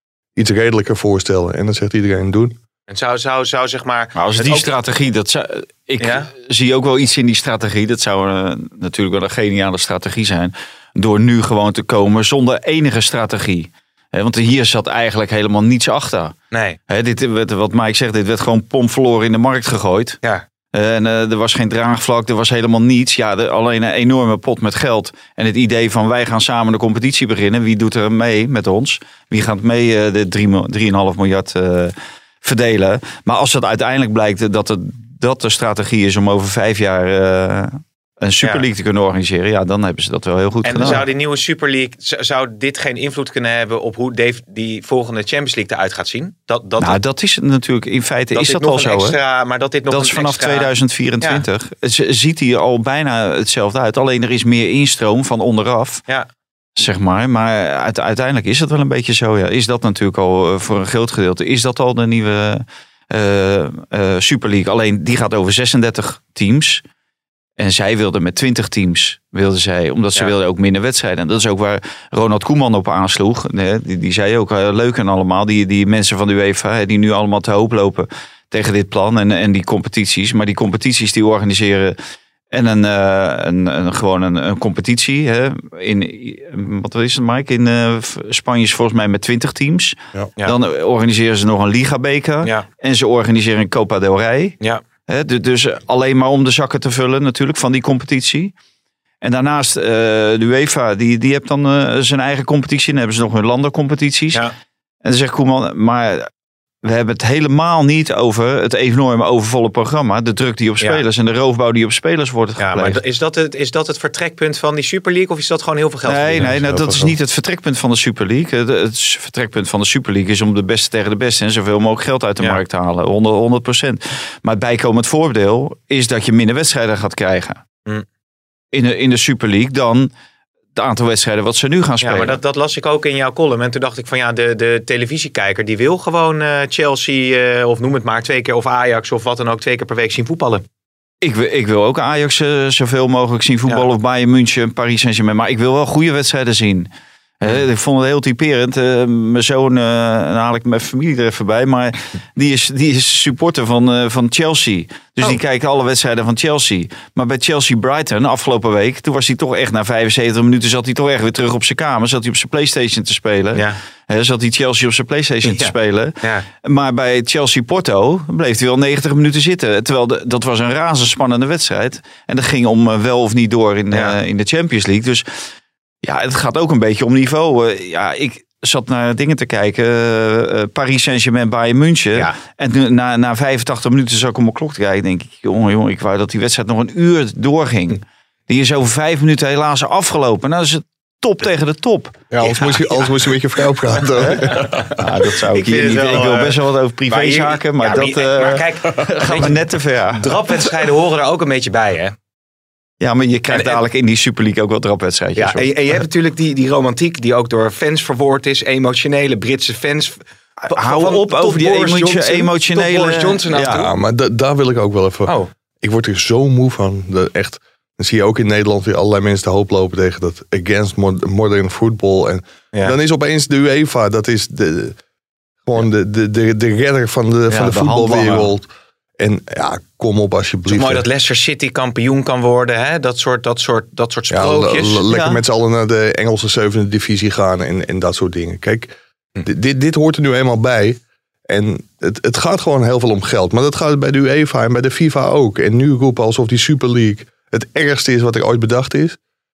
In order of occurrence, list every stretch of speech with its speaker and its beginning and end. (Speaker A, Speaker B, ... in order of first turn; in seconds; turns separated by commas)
Speaker A: 0.3-2.6, Speaker B: 2.9-4.7, Speaker C: 4.1-16.3, Speaker B: 6.0-6.3, Speaker B: 16.5-16.8, Speaker C: 16.9-20.2, Speaker C: 20.7-41.0, Speaker B: 40.6-47.0, Speaker C: 46.8-49.2, Speaker B: 48.3-50.7, Speaker C: 49.9-56.0, Speaker C: 56.8-66.8, Speaker C: 67.6-82.0, Speaker C: 82.5-98.5, Speaker C: 99.2-104.4, Speaker C: 105.0-106.3, Speaker C: 106.8-113.0, Speaker B: 112.6-116.5, Speaker C: 116.1-127.6, Speaker A: 116.3-117.1, Speaker C: 128.7-130.1, Speaker C: 130.7-132.4, Speaker B: 132.0-140.6, Speaker C: 141.2-146.9, Speaker C: 147.4-175.2, Speaker B: 165.4-166.4, Speaker C: 176.0-192.2, Speaker A: 192.3-194.7, Speaker B: 192.4-193.2, Speaker C: 194.3-200.3, Speaker B: 194.5-202.1, Speaker C: 203.0-205.7, Speaker B: 203.5-203.8, Speaker B: 205.3-213.9, Speaker C: 210.6-213.8, Speaker A: 213.7-225.0, Speaker A: 225.6-228.7, Speaker C: 227.5-228.5, Speaker A: 229.2-231.0, Speaker B: 230.7-235.0, Speaker A: 234.3-238.9, Speaker C: 235.1-235.4, Speaker A: 239.4-249.2